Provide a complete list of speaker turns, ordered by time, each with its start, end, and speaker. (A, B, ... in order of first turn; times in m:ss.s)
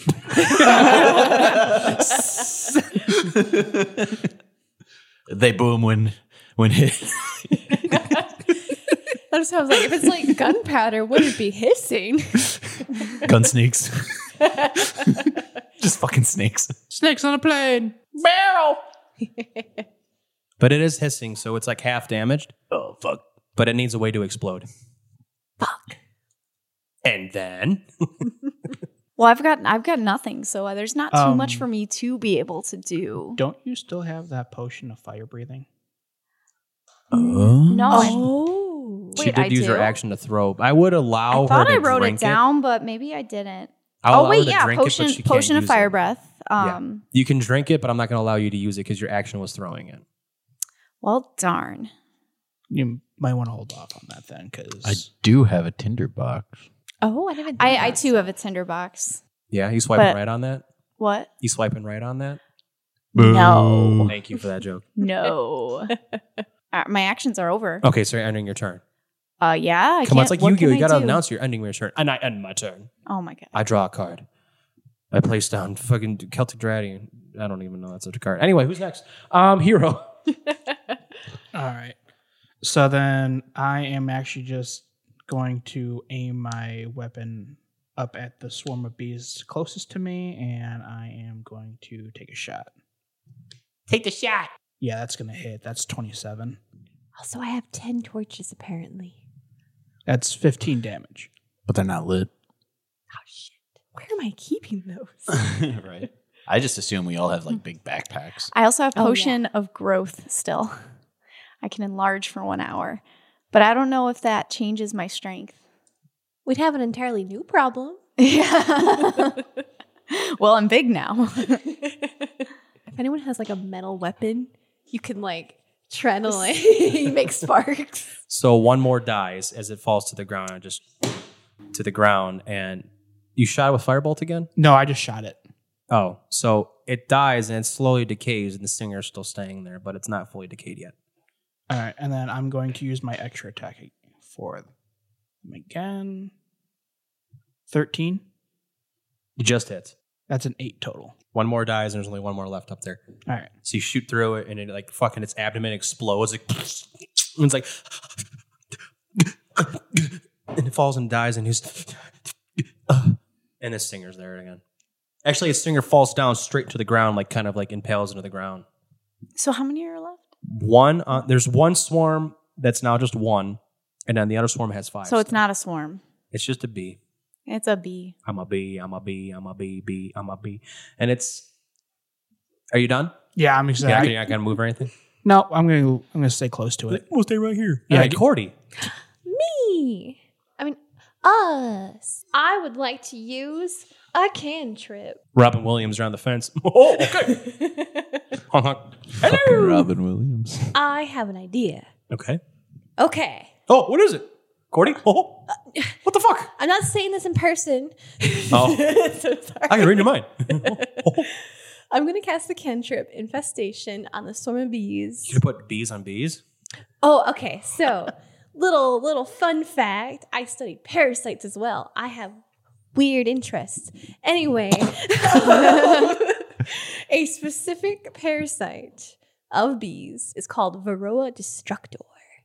0:00.4-0:04.2 A
0:00.6-0:01.3 B
0:05.3-0:08.0 A
0:07.9-0:08.2 C
0:09.3-0:12.5 C
0:13.2-0:16.8 A
0:16.9-0:18.8 B
0:19.2-0:19.8 C
0:20.6-0:22.5 D
0:22.7-0:23.2 A
0:23.6-0:24.7 D
0:25.6-0:26.0 C
0:27.0-0:28.3 D
0:29.2-0:33.4 E
0:31.1-0:31.7 B
0:33.4-0:35.6 B
0:37.1-0:38.1 A
0:37.6-0:38.4 E
0:37.9-0:39.2 C
0:39.1-0:40.0 E
0:39.2-0:42.4 D
0:41.3-0:47.0 E
0:44.0-0:45.9 D
0:46.6-0:50.0 D
0:51.0-0:51.9 E
0:52.7-0:55.0 B
0:54.8-0:56.6 A
0:57.0-0:58.3 C
0:57.5-0:59.2 E
0:59.5-1:00.6 D
1:01.0-1:01.3 E
1:01.4-1:02.4 D
1:03.1-1:04.1 A
1:03.1-1:04.1 E
1:04.1-1:04.9 D
1:05.0-1:05.9 E
1:05.9-1:06.2 C
1:06.7-1:07.8 E
1:07.8-1:08.8 D
1:09.4-1:11.2 E
1:10.0-1:12.9 D
1:13.1-1:13.5 E
1:13.5-1:14.2 D
1:15.1-1:20.1 D
1:21.5-1:22.0 B
1:22.6-1:32.7 B
1:33.9-1:34.5 D
1:34.8-1:36.6 B
1:37.2-1:39.2 C
1:40.1-1:41.3 B
1:41.7-1:42.3 A
1:43.1-1:45.5 C
1:45.4-1:48.5 A
1:48.5-1:50.7 E
1:48.9-1:49.4 C
1:51.6-1:55.6 E
1:56.4-1:58.0 C
1:58.2-1:59.4 E
2:00.1-2:01.6 E
2:01.8-2:08.1 C
2:08.3-2:10.8 D
2:11.7-2:14.5 D
2:14.6-2:15.4 B
2:15.9-2:20.9 D
2:21.7-2:24.7 B
2:25.4-2:26.3 B
2:27.7-2:28.2 B
2:29.4-2:29.9 D
2:30.3-2:31.1 B
2:31.3-2:33.0 D
2:33.6-2:38.2 D
2:39.1-2:44.6 D
2:45.2-2:48.6 D
2:49.4-2:50.2 E
2:50.5-2:55.4 D
2:55.0-2:56.0 E
2:56.3-2:57.0 D
2:57.5-2:58.1 E
2:58.2-3:01.5 D
3:02.7-3:03.1 D
3:03.4-3:04.4 B
3:03.8-3:04.9 D
3:05.2-3:07.0 B
3:06.9-3:08.5 D
3:07.9-3:08.2 B
3:08.8-3:15.2 C
3:15.3-3:17.4 D
3:17.2-3:18.2 C
3:18.5-3:19.9 D
3:19.2-3:20.7 A
3:20.7-3:21.9 C
3:22.1-3:22.4 D
3:23.0-3:23.5 C
3:23.7-3:25.4 D
3:26.0-3:26.5 D
3:26.6-3:31.4 C
3:28.5-3:28.9 D
3:29.7-3:31.3 D
3:31.9-3:35.4 C
3:35.3-3:36.4 D
3:37.0-3:42.4 C
3:42.9-3:52.1 C
3:45.6-3:46.1 E